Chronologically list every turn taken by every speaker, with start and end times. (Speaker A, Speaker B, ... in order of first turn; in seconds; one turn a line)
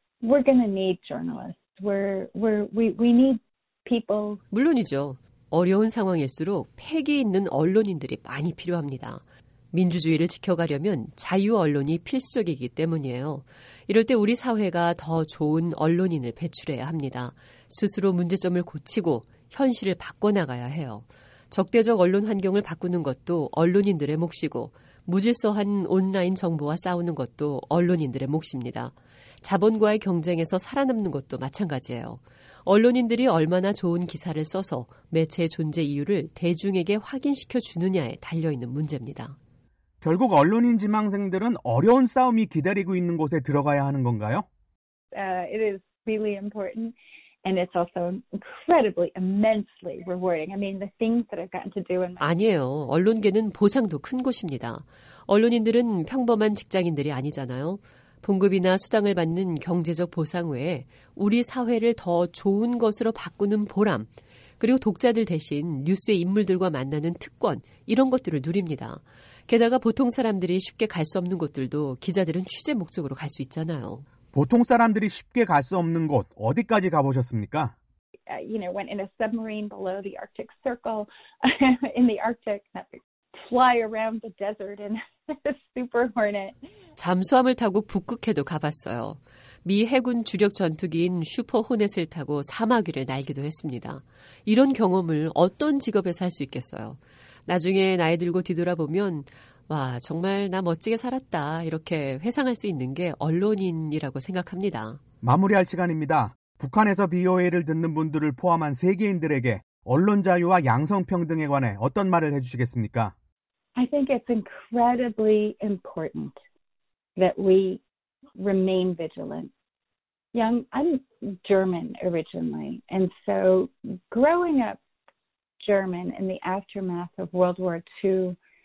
Speaker A: 0.2-4.4
Speaker B: 4.5-39.4
Speaker C: 40.0-44.5
Speaker A: 45.1-52.3
Speaker B: 52.2-74.1
Speaker C: 74.3-77.7
Speaker A: 78.3-86.7
Speaker B: 87.0-105.0
Speaker C: 105.2-113.1
Speaker A: 113.8-116.4
Speaker A: 117.2-117.8
Speaker A: 118.4-119.5
Speaker A: 120.3-124.8
Speaker A: 125.6-128.4